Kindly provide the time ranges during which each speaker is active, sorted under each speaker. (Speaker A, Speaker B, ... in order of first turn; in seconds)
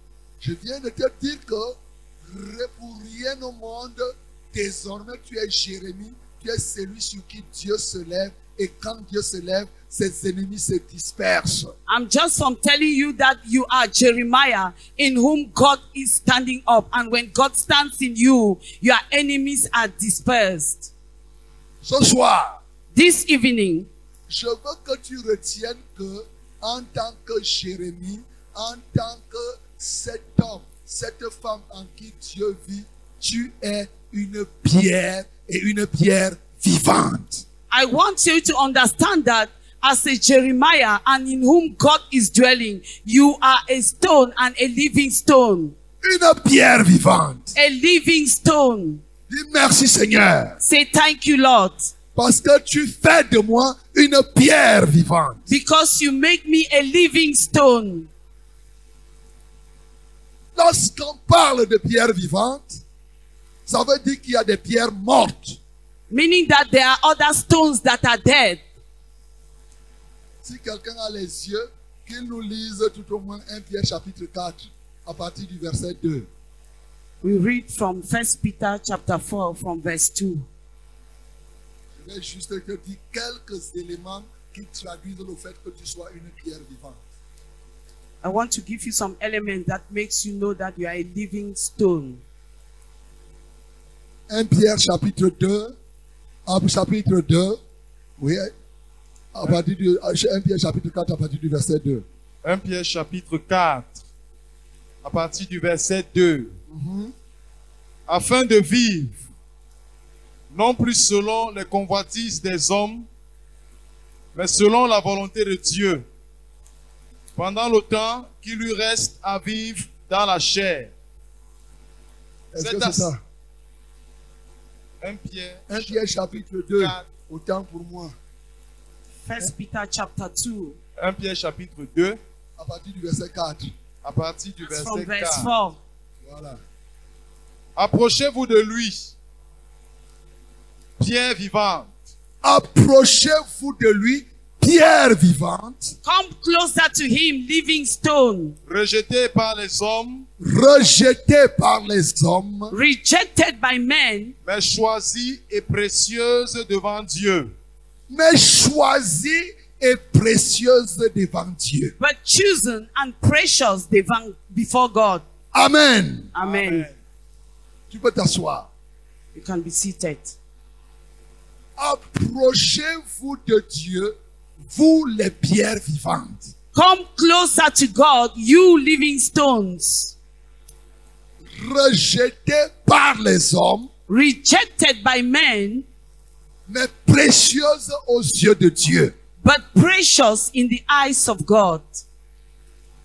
Speaker A: 0.4-11.8, 21.8-22.6, 24.3-37.4, 46.0-47.6, 49.3-50.6, 52.1-55.4, 60.6-62.8, 63.7-65.6, 70.4-76.3, 82.0-87.0, 94.3-95.7, 96.5-97.6, 98.2-98.5, 99.3-102.0, 106.7-107.1, 122.5-123.2, 125.7-128.2, 132.6-133.7, 136.2-136.6, 142.4-145.9, 150.4-152.7, 158.1-161.9, 165.5-166.3, 167.9-168.7, 171.8-174.1, 174.7-176.5, 181.6-183.9, 186.7-189.1
Speaker B: 11.9-20.9, 22.9-23.9, 37.7-45.7, 47.5-49.0, 50.6-51.9, 55.5-58.1, 66.1-68.6, 77.2-80.5, 88.2-92.2, 129.2-130.8, 134.6-135.8, 146.0-148.6, 152.7-154.3, 162.0-165.2, 166.3-166.9, 169.3-170.3, 176.7-180.1, 184.1-185.8, 189.4-192.0
Speaker C: 102.4-104.0, 105.0-106.5, 108.1-109.2, 110.5-113.1, 114.3-116.1, 117.3-120.9, 122.6-123.1, 125.0-126.1, 126.8-127.1, 131.0-132.2, 134.0-135.5, 137.8-139.1, 141.0-141.9, 148.7-150.3, 154.4-157.5, 166.4-166.9